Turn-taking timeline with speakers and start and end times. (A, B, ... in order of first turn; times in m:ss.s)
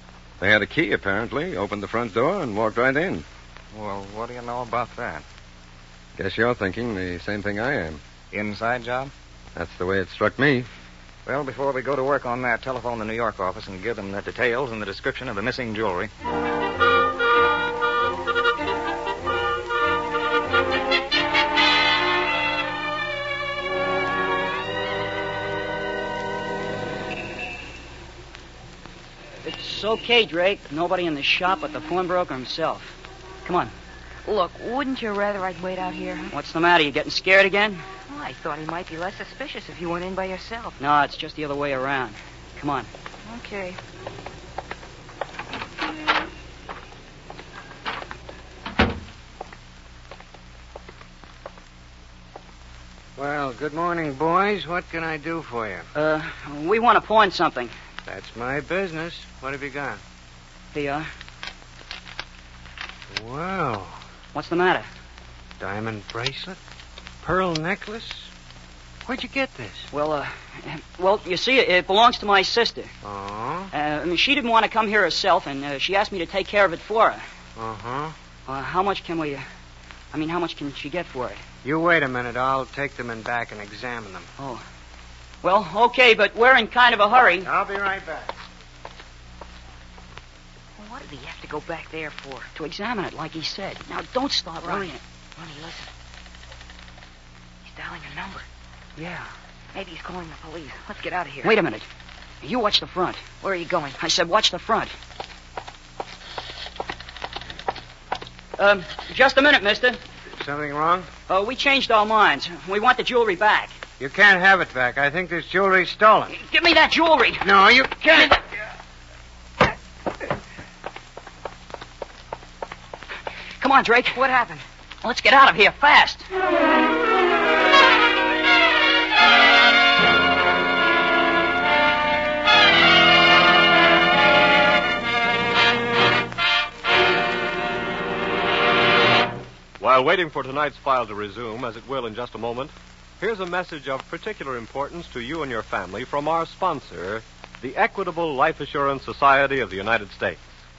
0:00.4-0:03.3 A
0:03.7-0:05.2 B
0:06.2-0:08.0 A
0:08.3-0:09.1 B
0:09.6-0:10.7 A
0:11.3-0:16.1 B
0:29.4-0:33.7 C
0:34.2-0:36.3 D
0:36.3-0:37.8 C
0:38.1-0:40.8 D
0:40.8-0:42.9 C
0:43.2-0:43.8 D
0:53.2-0:55.9 E
0:56.0-0:57.7 C
0:58.1-1:00.0 E
1:00.7-1:01.1 C
1:03.1-1:04.0 E
1:04.3-1:04.9 C
1:05.6-1:06.6 E
1:07.2-1:08.3 E
1:09.0-1:09.9 E
1:09.9-1:12.9 C
1:13.0-1:13.7 E
1:13.7-1:17.2 C
1:17.6-1:18.2 E
1:18.5-1:19.4 C
1:20.1-1:21.4 C
1:21.6-1:24.3 E
1:24.4-1:24.6 C
1:25.4-1:27.5 C
1:27.4-1:28.4 E
1:30.8-1:32.5 D
1:32.6-1:35.0 C
1:34.6-1:35.9 D
1:37.7-1:38.5 D
1:39.0-1:39.3 C
1:39.7-1:41.6 D
1:41.4-1:41.9 C
1:42.4-1:43.3 C
1:43.4-1:44.0 D
1:44.0-1:44.9 C
1:48.6-1:50.0 C
1:50.4-1:51.1 E
1:51.3-1:53.7 C
1:54.0-1:56.4 E
1:56.3-1:57.5 C
1:57.4-1:58.4 E
2:03.6-2:04.2 C
2:04.1-2:04.6 D
2:05.0-2:06.3 C
2:19.8-2:30.5 F